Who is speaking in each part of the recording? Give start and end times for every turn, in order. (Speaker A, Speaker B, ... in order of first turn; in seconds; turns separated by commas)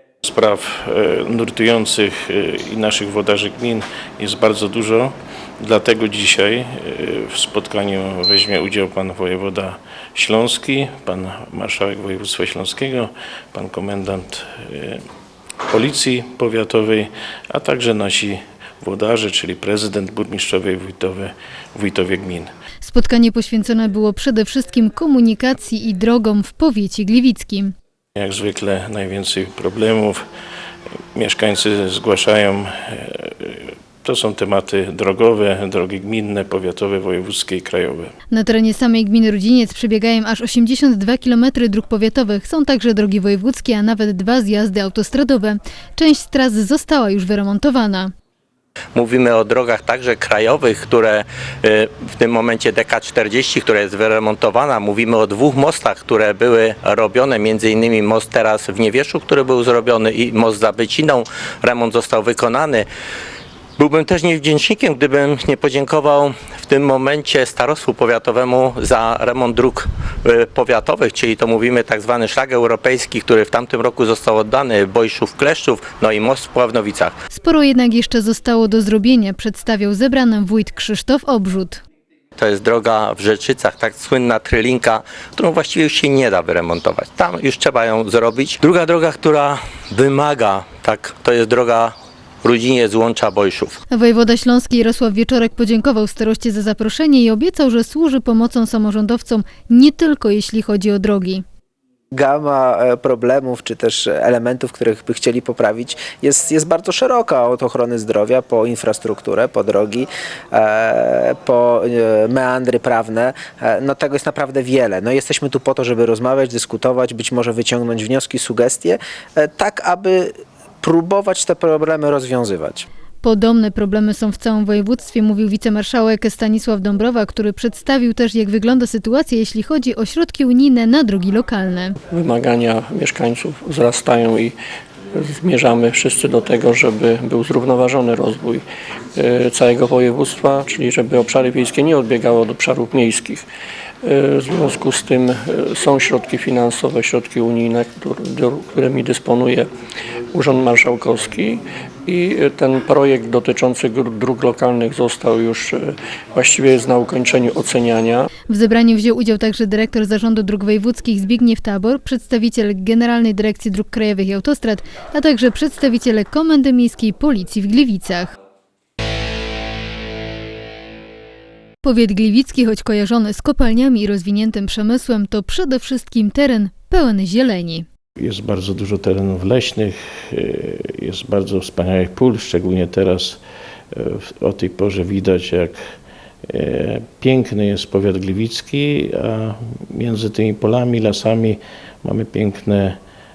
Speaker A: 0.2-15.0, Speaker A: 15.7-22.5, Speaker B: 22.8-27.7, Speaker A: 28.1-30.2, Speaker A: 31.1-38.1, Speaker B: 38.3-48.1, Speaker C: 48.9-62.9, Speaker C: 63.8-77.1, Speaker B: 77.3-81.8, Speaker C: 82.4-93.8, Speaker B: 93.9-101.4, Speaker D: 102.1-122.9, Speaker B: 123.2-131.9, Speaker E: 132.1-134.5, Speaker E: 135.1-138.6, Speaker E: 139.2-143.4, Speaker E: 144.0-149.7, Speaker E: 150.3-158.3, Speaker B: 158.5-168.3, Speaker B: 171.8-177.8, Speaker A: 178.2-183.4, Speaker A: 183.9-185.8, Speaker A: 186.5-193.0